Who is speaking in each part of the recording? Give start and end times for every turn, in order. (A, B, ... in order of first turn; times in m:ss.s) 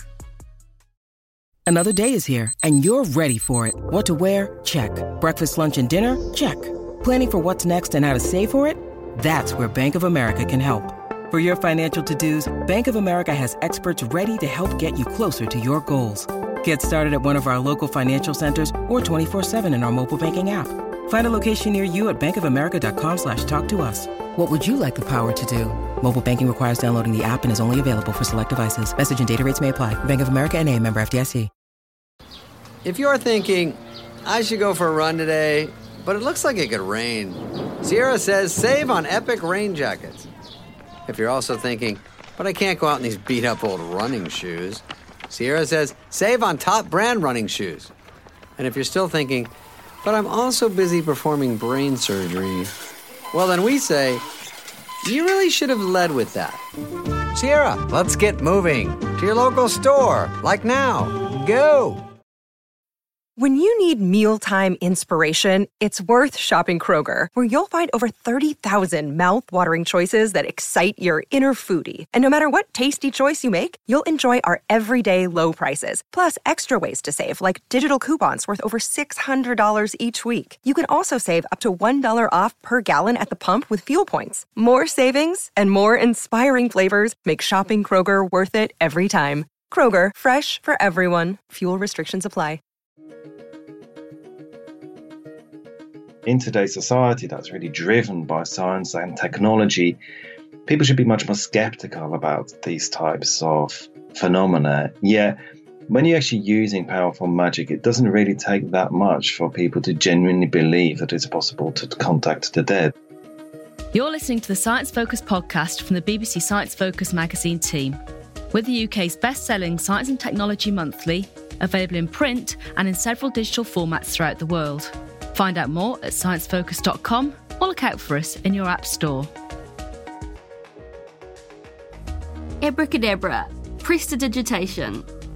0:01.7-0:31.5 A
0:32.8-0:40.3 B
0:41.0-0:47.9 B
0:48.6-0:49.5 B
0:50.0-0:52.7 B
0:53.3-0:54.2 B
0:55.0-0:56.6 B
0:57.3-1:02.1 B
1:03.4-1:32.6 C
1:36.2-1:40.0 D
1:40.6-1:45.4 D
1:45.9-1:52.9 D
1:53.9-1:58.0 E
1:58.5-2:09.3 E
2:12.6-2:15.1 F